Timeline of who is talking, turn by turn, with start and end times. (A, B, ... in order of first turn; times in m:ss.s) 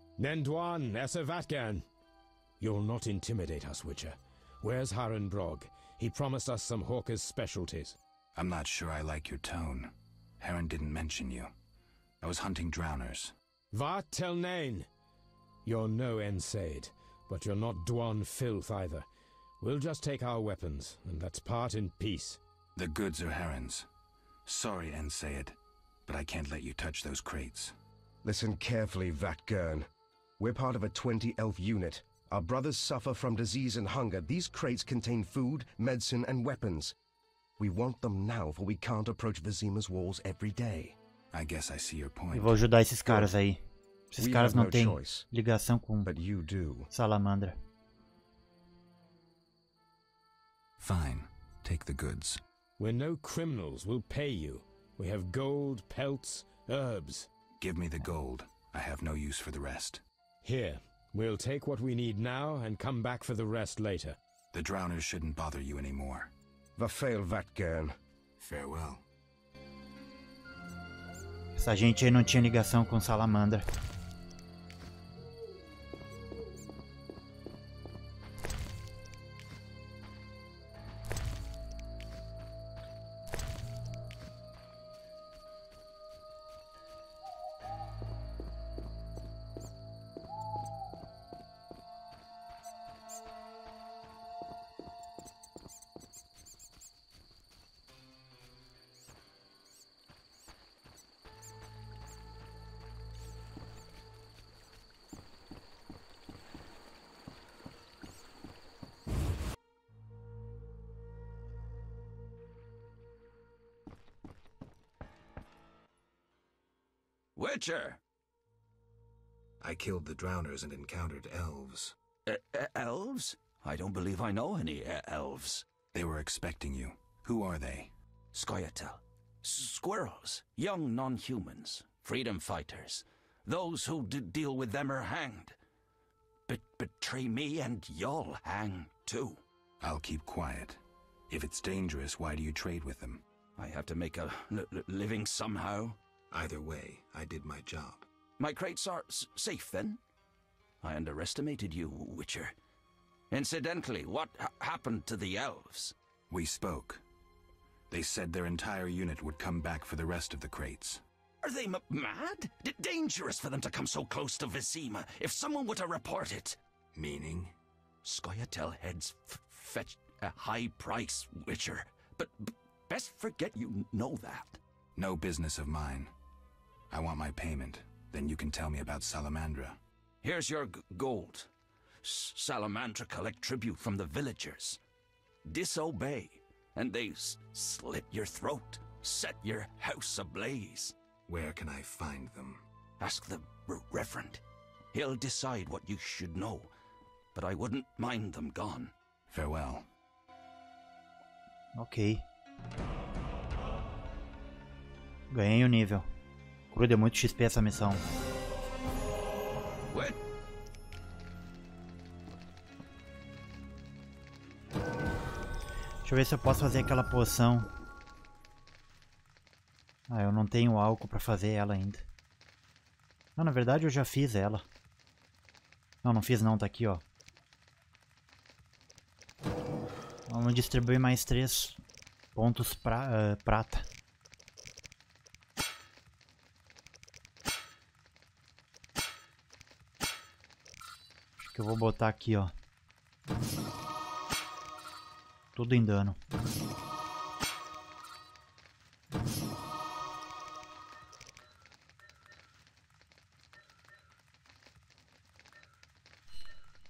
0:00.2-0:01.8 A
0:02.6-0:08.0 A
0:08.3-0:11.5 B
0:12.2-0:13.3 B
0:13.7-0:14.9 A
0:15.6-0:19.0 A
0:19.6-0:22.4 A
0:22.8-0:23.9 B
0:24.4-0:27.7 B
0:28.2-0:29.9 C
0:30.4-0:36.9 C
0:37.6-0:41.0 C
0:41.3-0:42.6 B
0:42.3-0:46.1 D
0:44.2-0:45.3 C
0:46.0-0:46.9 C
0:46.9-0:47.6 D
0:50.8-0:52.4 B
0:52.8-0:57.3 A
0:57.6-1:00.0 B
1:00.4-1:04.2 A
1:04.5-1:06.3 B
1:06.8-1:08.0 C
1:08.4-1:09.0 B
1:11.6-1:13.6 D
1:57.4-1:58.0 E
1:59.6-2:02.0 B
2:02.2-2:05.6 E
2:05.9-2:07.9 B
2:08.3-2:15.6 E
2:16.5-2:19.4 E
2:19.8-2:23.2 B
2:23.6-2:26.0 E
2:26.3-2:28.1 B
2:28.4-2:30.0 E
2:30.8-2:32.5 E
2:33.3-2:35.9 E
2:36.3-2:37.0 B
2:37.9-2:41.0 B
2:41.4-2:46.6 E
2:46.9-2:47.5 B
2:48.0-2:54.6 E
2:55.0-2:56.1 B
2:56.9-2:59.8 B
3:00.2-3:01.5 E
3:02.0-3:04.8 E
3:05.5-3:10.9 E
3:11.3-3:12.6 B
3:13.0-3:14.4 E
3:14.9-3:16.7 E
3:17.3-3:18.9 E
3:19.3-3:19.9 B
3:21.8-3:22.2 D
3:25.3-3:26.1 D
3:26.7-3:28.0 D
3:29.9-3:30.2 E
3:36.0-3:37.7 D
3:40.1-3:42.0 D
3:43.4-3:44.6 D
3:46.0-3:47.0 D
3:50.3-3:51.8 D
3:52.3-3:53.8 D
4:01.4-4:02.5 D
4:05.5-4:06.2 D